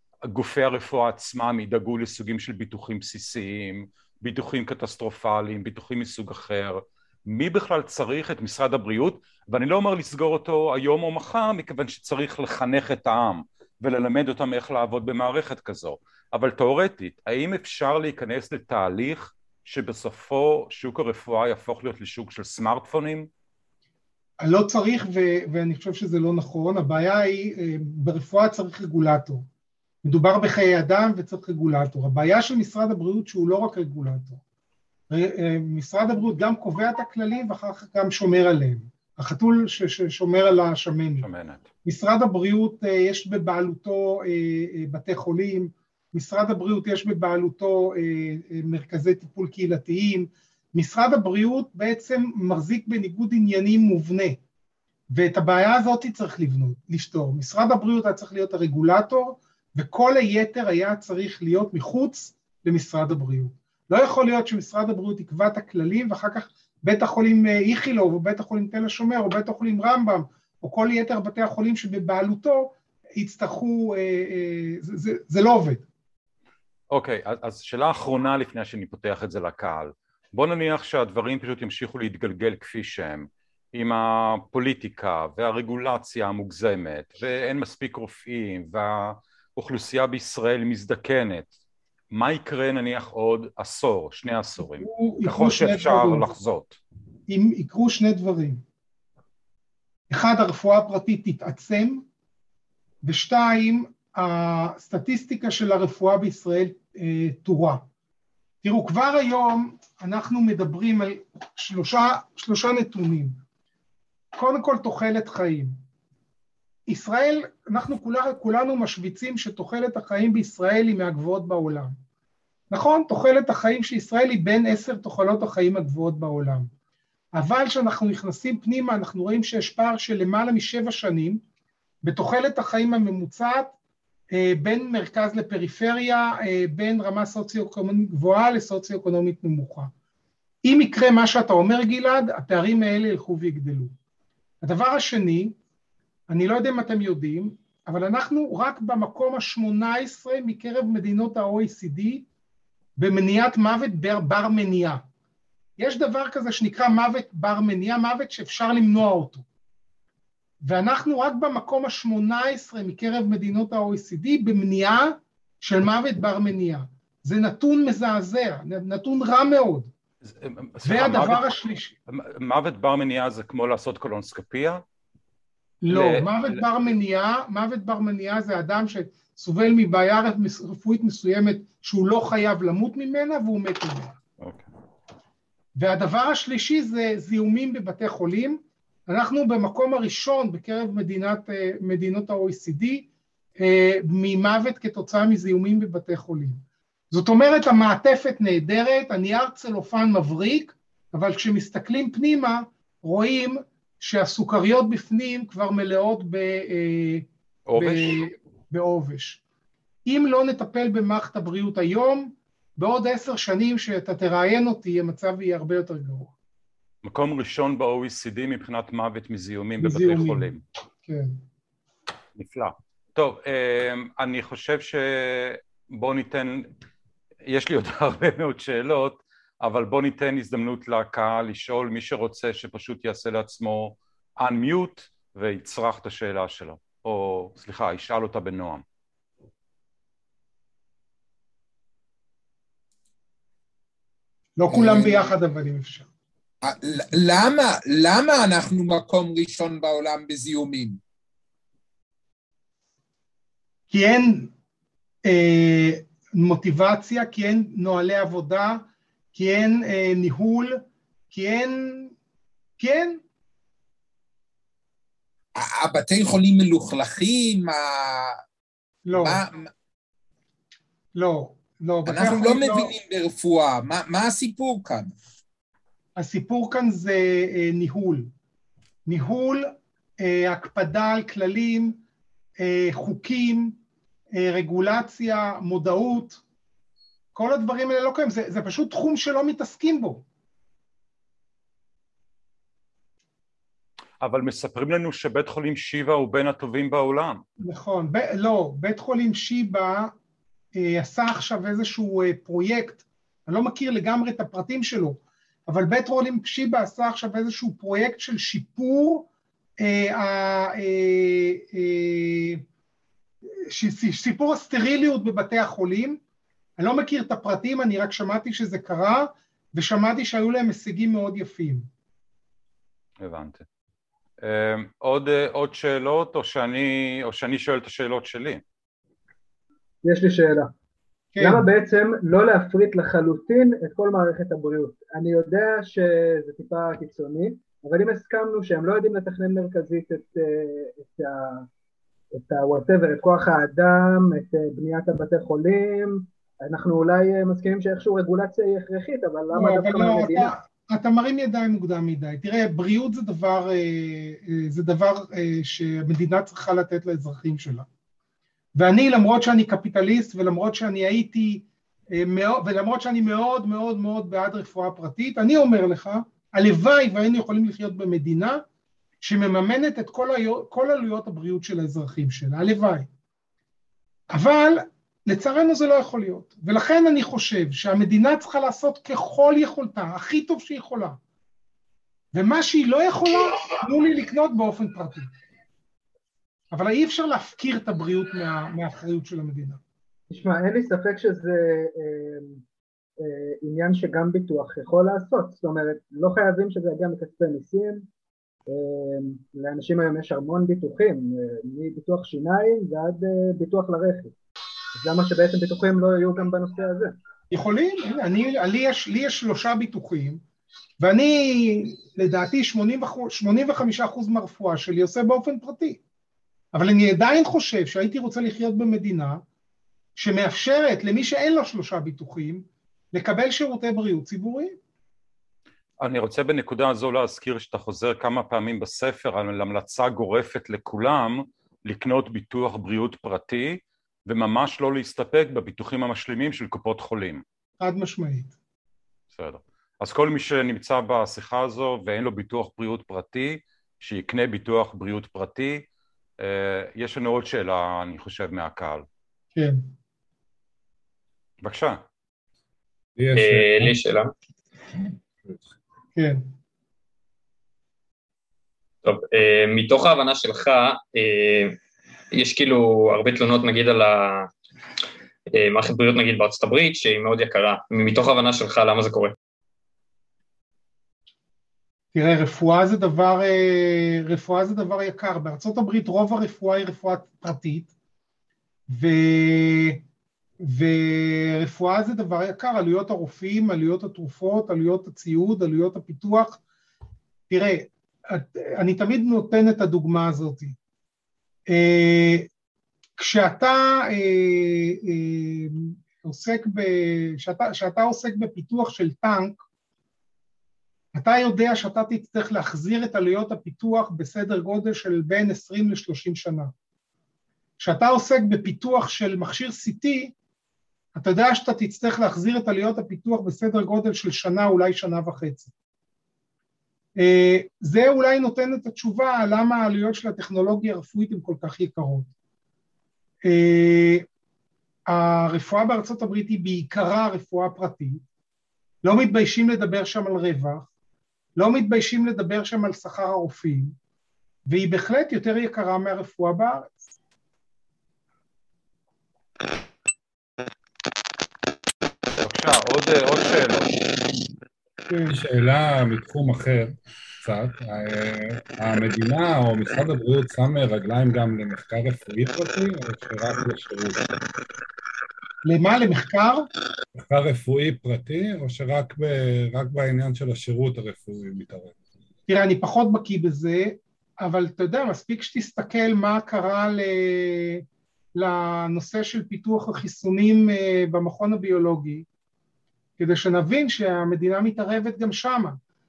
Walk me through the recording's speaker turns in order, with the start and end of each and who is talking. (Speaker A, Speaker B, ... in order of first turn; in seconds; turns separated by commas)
Speaker A: 0.2-23.3, Speaker B: 24.4-29.4, Speaker B: 30.0-34.4, Speaker B: 35.1-41.3, Speaker A: 41.2-41.7, Speaker B: 41.8-54.4, Speaker B: 55.1-75.8, Speaker A: 76.9-91.5, Speaker A: 92.1-96.8, Speaker B: 94.8-96.2, Speaker B: 97.3-98.6, Speaker B: 100.1-102.0, Speaker B: 103.0-107.8, Speaker B: 108.6-113.4, Speaker B: 114.3-115.8, Speaker B: 116.9-122.0, Speaker B: 122.7-126.7, Speaker B: 127.3-131.4, Speaker B: 132.0-133.7, Speaker B: 134.3-139.9, Speaker B: 140.7-143.9, Speaker B: 144.6-145.6, Speaker B: 146.3-152.3, Speaker B: 153.0-155.0, Speaker B: 155.8-159.4, Speaker B: 160.6-169.9, Speaker A: 170.2-171.4, Speaker B: 170.8-171.9, Speaker A: 172.1-174.8, Speaker B: 175.8-184.1, Speaker A: 175.9-176.6, Speaker A: 184.4-184.7, Speaker B: 185.8-193.1, Speaker B: 193.6-207.3, Speaker A: 207.7-208.2, Speaker B: 207.8-209.4, Speaker B: 210.1-216.3, Speaker A: 217.0-220.6, Speaker B: 219.8-220.5, Speaker B: 221.1-221.3, Speaker A: 222.3-226.7, Speaker A: 227.5-238.8, Speaker B: 244.6-246.1, Speaker C: 244.8-245.3, Speaker C: 246.6-251.0, Speaker B: 253.9-254.5, Speaker B: 255.2-262.1, Speaker B: 262.8-263.2, Speaker C: 265.6-268.4, Speaker B: 269.1-269.4, Speaker C: 269.1-269.7, Speaker B: 271.1-272.9, Speaker C: 272.1-275.1, Speaker B: 276.2-278.3, Speaker B: 279.1-282.0, Speaker B: 282.6-283.8, Speaker B: 284.3-286.4, Speaker B: 287.3-290.2, Speaker A: 294.2-297.4, Speaker B: 297.6-300.1, Speaker B: 300.8-309.3, Speaker B: 309.8-312.6, Speaker B: 313.7-316.2, Speaker B: 316.8-321.9, Speaker A: 323.2-323.6, Speaker A: 324.4-328.6, Speaker D: 330.0-330.7, Speaker B: 331.3-331.7, Speaker D: 331.4-341.7, Speaker D: 342.4-350.5, Speaker B: 349.5-357.9, Speaker B: 358.8-368.6, Speaker B: 369.2-373.1, Speaker B: 374.3-381.2, Speaker B: 382.3-385.3, Speaker B: 386.7-389.8, Speaker D: 390.3-392.6, Speaker D: 393.2-398.1, Speaker D: 398.7-404.4, Speaker D: 404.9-407.2, Speaker B: 407.5-410.4, Speaker B: 411.0-416.0, Speaker B: 416.7-419.4, Speaker B: 420.2-424.8, Speaker A: 426.0-437.4, Speaker B: 437.8-438.5, Speaker A: 439.3-445.9, Speaker A: 446.4-449.1, Speaker B: 449.6-449.9, Speaker A: 451.6-452.0, Speaker E: 453.2-454.0, Speaker F: 453.4-454.3, Speaker B: 456.2-456.4, Speaker F: 459.0-461.8, Speaker F: 462.3-464.5, Speaker F: 465.5-469.4, Speaker B: 472.1-477.9, Speaker B: 478.9-480.0, Speaker B: 480.6-486.6, Speaker B: 487.5-490.8, Speaker B: 491.7-492.5, Speaker B: 493.2-499.6, Speaker B: 501.1-506.7, Speaker B: 507.8-510.3, Speaker B: 511.1-515.7, Speaker B: 517.2-522.3, Speaker B: 523.5-524.2, Speaker B: 525.1-528.2, Speaker B: 529.0-530.9, Speaker B: 531.6-534.0, Speaker B: 534.7-537.0, Speaker A: 542.4-543.9, Speaker B: 545.1-545.4, Speaker E: 545.3-554.2, Speaker B: 555.6-556.7, Speaker E: 557.1-562.0, Speaker B: 562.5-567.8, Speaker B: 568.4-572.3, Speaker B: 573.2-575.8